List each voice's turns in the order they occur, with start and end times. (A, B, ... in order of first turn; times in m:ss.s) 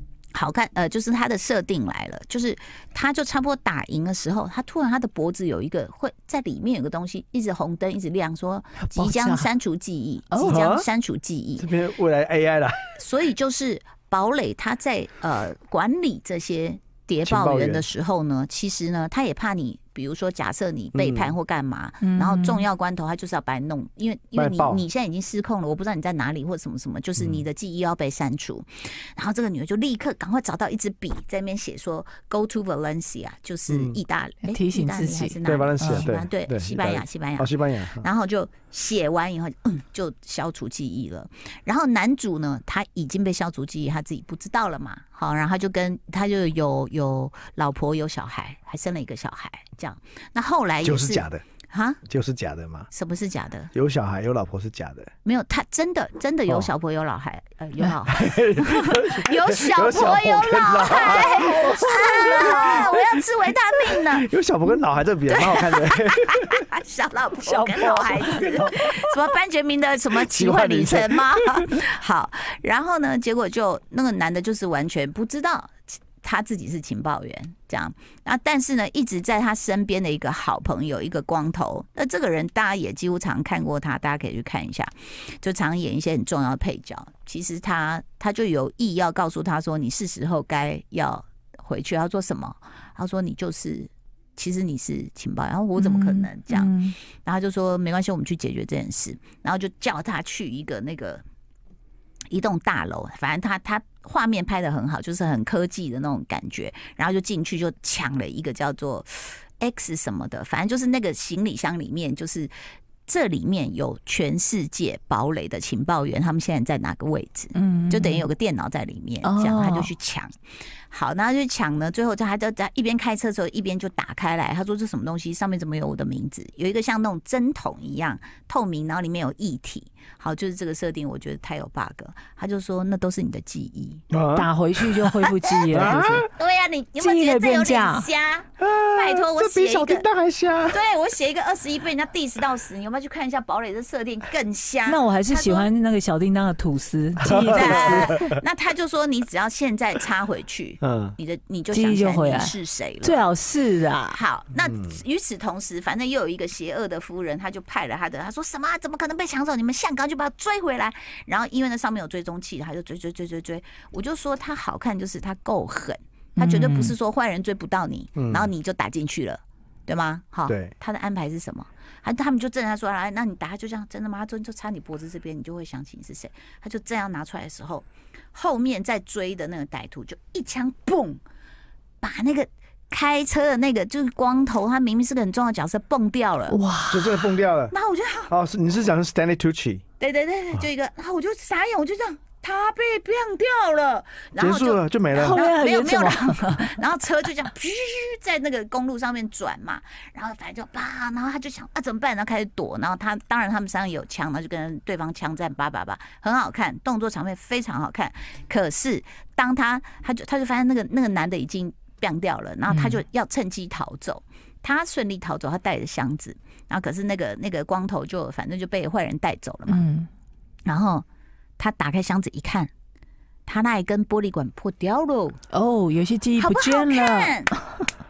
0:00.3-0:11.7 A
0:08.8-0:09.5 B
0:10.3-0:10.8 B
0:10.5-0:10.9 C
0:11.6-0:12.9 C
0:12.9-0:52.0 A
0:17.2-0:17.8 C
0:20.9-0:21.3 C
0:22.0-0:22.6 B
0:24.4-0:24.8 C
0:33.7-0:34.0 C
0:34.4-0:36.1 B
0:35.4-0:38.1 C
0:50.8-0:51.4 C
0:52.0-0:52.9 C
0:52.9-0:53.7 A
0:53.7-0:55.1 C
0:55.2-1:04.3 A
0:57.8-1:03.1 C
1:01.1-1:02.8 B
1:03.9-1:06.5 C
1:05.3-1:41.2 A
1:07.4-1:08.7 B
1:10.3-1:11.7 C
1:35.8-1:37.0 B
1:42.3-1:52.5 A
1:53.0-2:00.3 A
1:57.5-1:58.2 B
1:59.2-1:59.9 B
2:00.9-2:14.0 A
2:14.1-2:16.3 C
2:14.3-2:16.2 B
2:15.4-2:20.1 A
2:17.0-2:18.1 B
2:18.6-2:20.8 C
2:20.7-2:25.7 A
2:24.8-2:28.2 B
2:27.2-2:28.4 C
2:27.4-2:33.2 A
2:30.8-2:31.2 C
2:31.7-2:34.2 B
2:34.1-3:01.2 A
2:34.6-2:35.0 C
2:46.4-2:46.9 B
2:48.2-2:48.5 C
2:50.5-2:50.7 C
3:02.0-3:06.6 A
3:06.5-3:07.3 B
3:06.9-3:07.7 C
3:07.7-3:08.3 A
3:08.3-3:09.8 C
3:10.0-3:39.9 A
3:14.4-3:15.4 C
3:15.1-3:16.8 B
3:32.7-3:33.0 B
3:39.7-3:40.1 B
3:40.6-3:41.0 A
3:41.6-3:42.7 A
3:43.4-3:45.4 A
3:45.5-3:47.6 B
3:46.4-3:47.5 A